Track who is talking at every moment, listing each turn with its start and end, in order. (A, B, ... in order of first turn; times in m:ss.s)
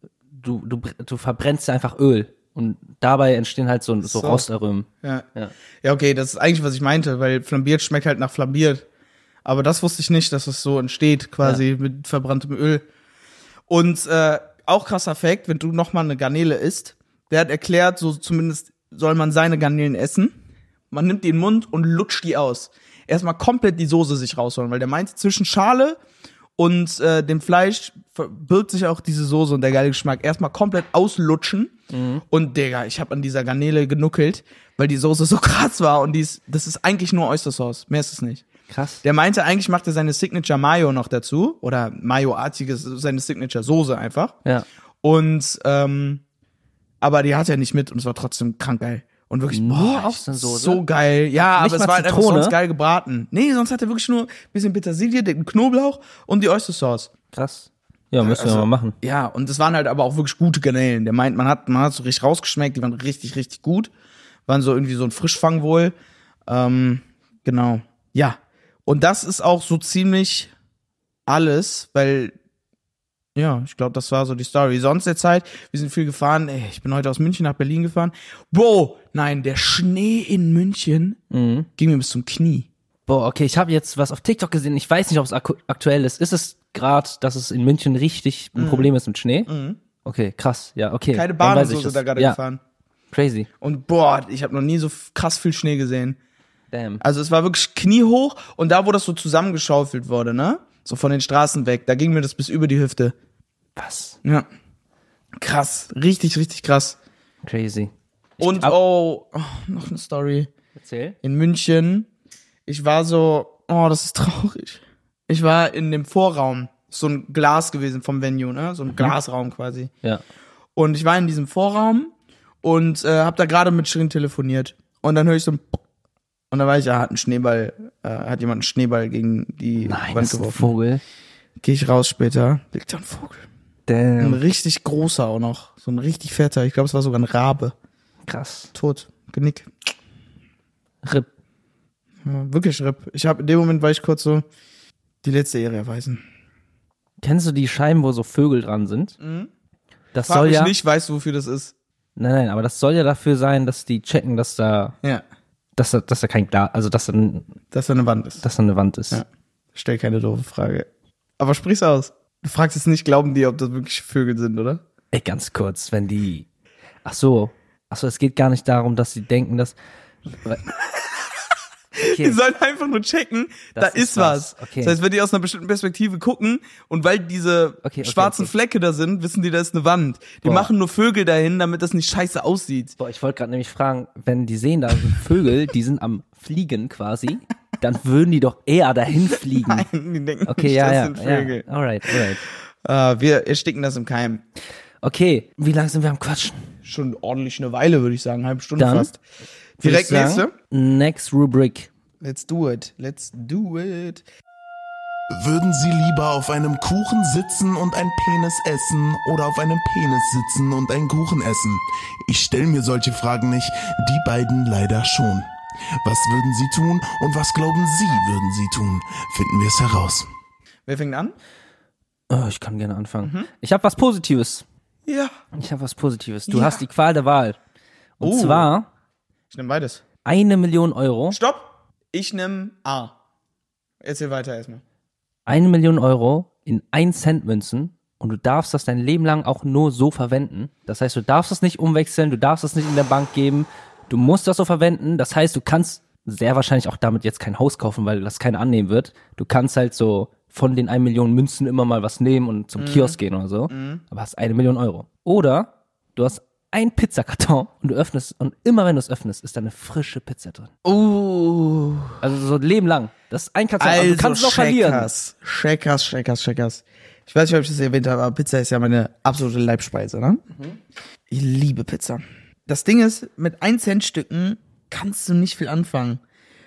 0:00.3-0:05.5 A
0:04.0-0:04.5 B
0:05.8-0:08.8 B
0:09.4-0:12.8 B
0:13.7-0:20.3 B
0:20.9-0:26.0 B
0:26.6-0:31.7 B
0:31.9-0:32.2 A
0:32.3-0:38.4 B
0:38.7-0:39.0 A
0:39.0-0:44.4 B
0:45.0-0:46.2 B
0:47.0-0:57.1 B
0:49.5-0:50.8 A
0:51.6-0:52.6 A
0:57.3-0:59.0 A
0:58.2-1:03.9 B
1:04.5-1:06.0 B
1:06.5-1:10.5 B
1:11.3-1:12.3 B
1:13.4-1:21.2 B
1:21.3-1:21.7 A
1:21.8-1:22.7 B
1:23.1-1:29.5 A
1:28.6-1:28.9 B
1:29.5-1:29.8 B
1:30.0-1:32.4 A
1:31.1-1:32.6 B
1:33.1-1:33.5 A
1:33.6-1:36.2 B
1:36.7-1:37.0 A
1:37.0-1:43.2 B
1:43.8-1:44.2 A
1:45.4-1:47.0 B
1:47.4-1:48.8 A
1:48.4-1:50.5 B
1:50.8-1:51.2 A
1:51.2-1:52.1 B
1:52.7-1:59.9 B
2:00.8-2:05.8 B
2:06.5-2:10.7 B
2:09.8-2:11.0 A
2:11.6-2:13.5 B
2:13.9-2:14.4 A
2:14.2-2:17.7 B
2:18.3-2:18.7 A
2:18.7-2:19.7 B
2:21.0-2:21.3 A
2:22.2-2:24.4 B
2:25.2-2:26.2 B
2:27.2-2:29.2 A
2:29.2-2:29.5 B
2:30.1-2:30.7 A
2:30.2-2:31.7 B
2:32.2-2:35.0 A
2:35.8-2:37.5 A
2:37.7-2:38.4 B
2:38.4-2:39.2 A
2:39.1-2:40.9 B
2:41.4-2:44.8 B
2:45.1-2:46.5 A
2:47.0-2:49.8 A
2:50.3-2:50.6 A
2:52.0-3:03.0 B
2:52.1-2:52.4 A
2:53.8-2:55.0 A
2:57.8-2:58.5 A
3:00.4-3:00.7 A
3:03.0-3:09.9 A
3:09.5-3:12.3 B
3:10.5-3:12.4 A
3:12.8-3:14.4 B
3:15.0-3:16.6 A
3:16.8-3:19.2 B
3:18.8-3:19.1 A
3:19.8-3:20.5 B
3:19.8-3:21.9 A
3:22.2-3:24.2 B
3:25.3-3:35.5 C
3:36.0-3:40.3 C
3:40.9-3:41.3 B
3:42.3-3:44.6 A
3:43.2-3:43.5 B
3:45.1-3:45.3 B
3:45.5-3:47.6 A
3:46.5-3:46.8 B
3:48.2-3:48.9 A
3:48.2-3:48.7 B
3:49.5-3:50.0 B
3:50.2-3:51.4 A
3:51.3-3:53.1 B
3:54.0-3:54.8 B
3:55.5-4:20.7 A
4:12.8-4:13.2 B
4:13.7-4:14.0 B
4:20.8-4:22.2 B
4:22.2-4:25.1 A
4:23.8-4:30.5 B
4:31.3-4:36.2 B